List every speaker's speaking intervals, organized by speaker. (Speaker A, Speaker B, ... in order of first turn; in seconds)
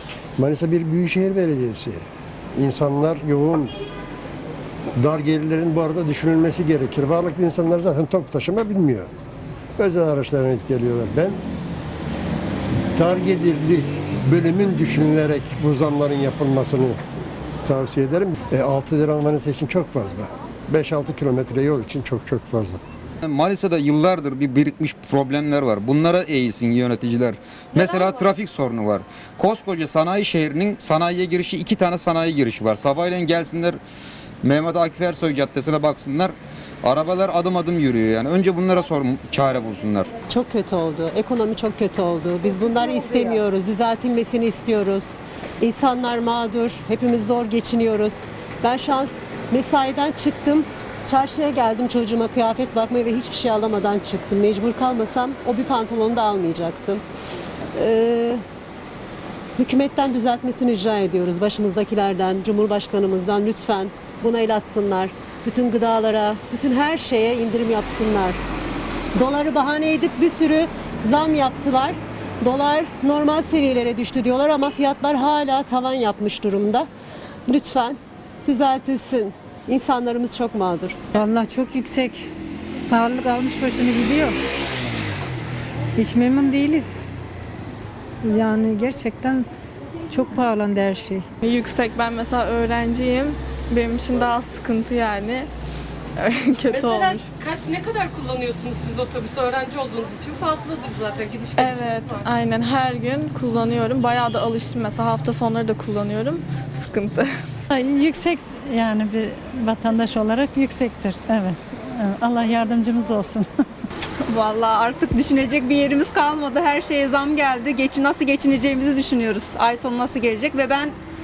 Speaker A: 0.4-3.7, 5.0-9.1, 9.8-11.4, 12.9-17.0, 17.6-22.8
Speaker B: 23.2-33.8, 34.4-40.1
Speaker C: 40.3-57.0, 57.8-58.4, 59.6-68.4, 69.1-76.9, 77.5-81.0
Speaker D: 81.2-82.2, 82.9-84.3, 86.0-87.0, 88.3-89.5, 90.1-91.2
Speaker E: 91.4-95.5, 96.2-97.3, 101.6-107.3
Speaker F: 96.6-102.3
Speaker G: 107.7-113.5
Speaker H: 114.3-121.0